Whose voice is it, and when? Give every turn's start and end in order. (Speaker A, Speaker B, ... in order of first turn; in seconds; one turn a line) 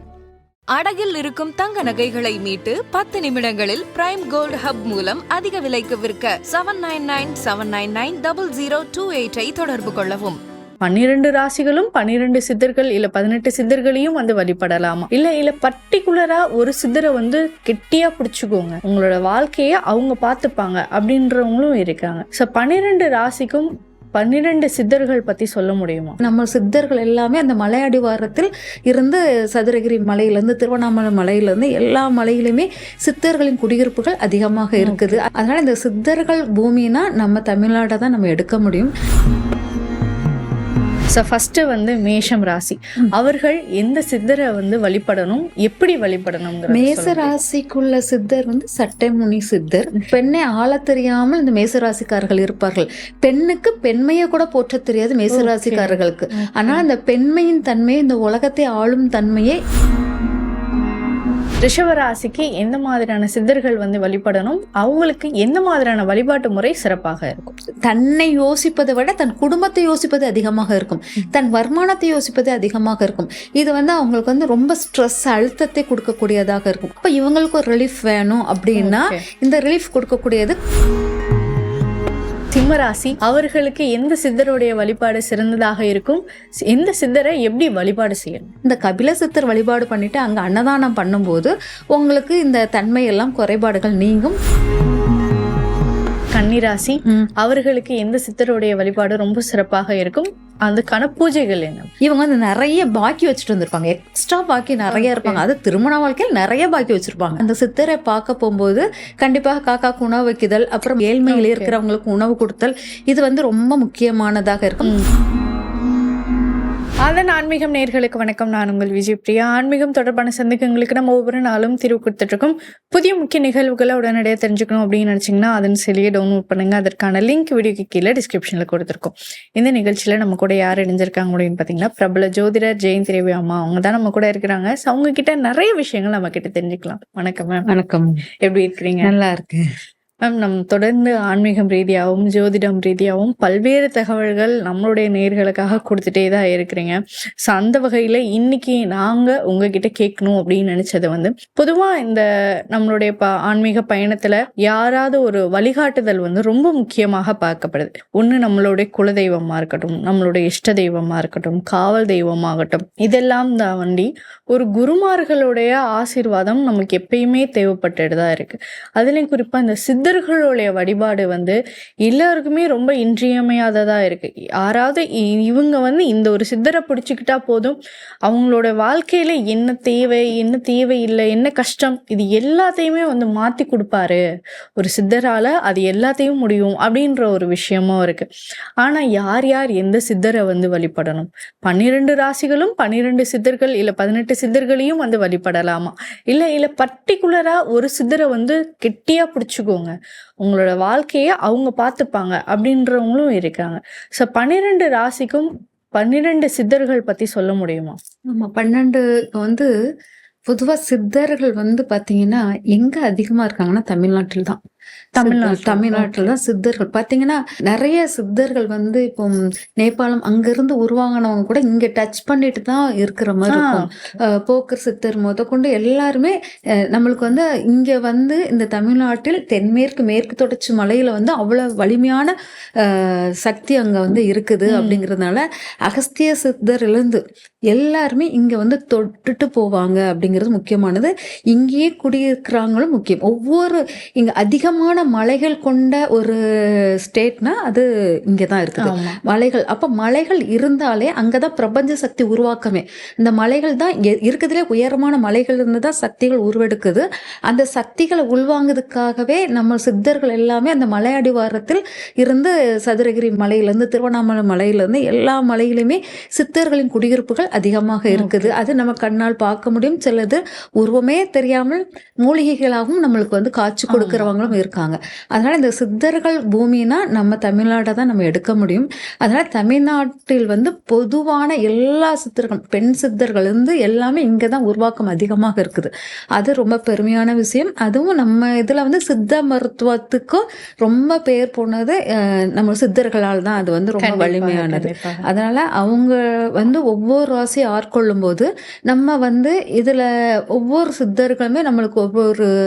Speaker A: 0.7-10.4
Speaker B: 10.8-26.2
Speaker C: 26.2-38.9
Speaker B: 34.8-35.2
Speaker B: 41.1-47.4
Speaker C: 46.7-59.6
Speaker B: 55.3-56.8
Speaker B: 61.6-67.5
Speaker C: 67.8-80.5
Speaker B: 78.8-79.2
Speaker B: 82.5-88.5
Speaker C: 88.6-94.4
Speaker B: 96.3-101.9
Speaker C: 102.0-115.0
Speaker B: 104.9-105.4
Speaker B: 111.3-111.8
Speaker B: 117.0-137.7
Speaker C: 137.7-138.2
Speaker B: 138.4-139.1
Speaker C: 139.0-139.6
Speaker B: 140.2-184.2
Speaker B: 184.8-188.3
Speaker B: 188.8-207.9
Speaker C: 208.3-209.7
Speaker C: 210.5-214.6
Speaker B: 215.2-216.3
Speaker C: 215.2-226.3
Speaker B: 223.5-223.9
Speaker C: 226.9-302.5
Speaker B: 234.7-235.0
Speaker B: 248.8-249.2
Speaker B: 268.1-268.6
Speaker B: 273.9-274.6
Speaker B: 294.0-295.2